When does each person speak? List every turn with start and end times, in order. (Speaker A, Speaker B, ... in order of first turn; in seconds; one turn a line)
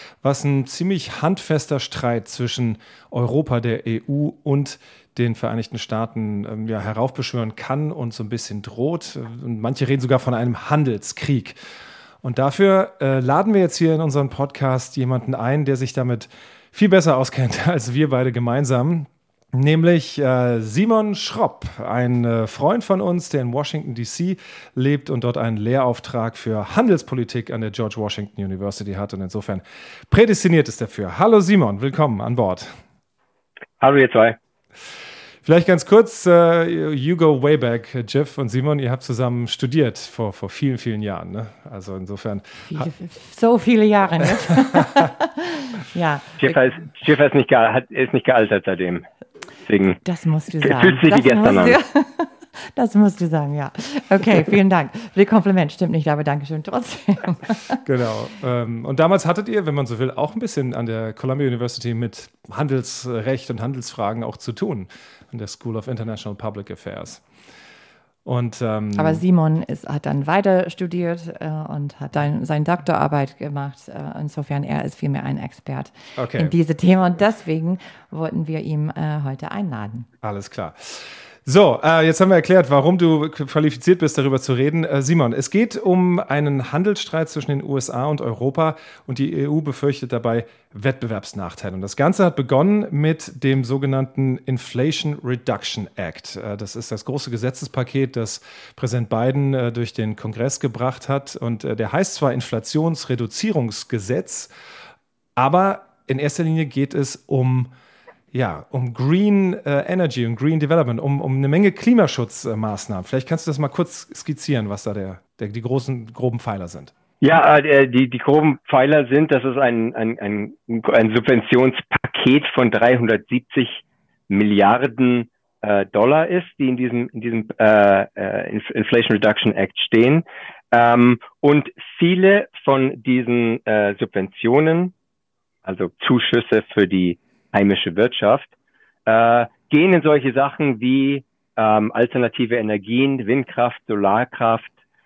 Speaker A: 0.2-11.6
Speaker A: 12.2-32.8
Speaker B: 33.8-34.4
Speaker A: 35.4-42.9
Speaker C: 42.7-46.5
Speaker B: 46.4-49.0
Speaker B: 49.7-50.0
Speaker C: 50.0-57.8
Speaker B: 50.6-51.8
Speaker A: 57.8-67.2
Speaker A: 68.2-69.2
Speaker C: 69.0-80.1
Speaker A: 76.2-76.5
Speaker A: 80.2-104.5
Speaker A: 105.4-107.7
Speaker A: 108.3-116.9
Speaker B: 117.2-134.9
Speaker B: 135.7-138.5
Speaker B: 139.1-144.7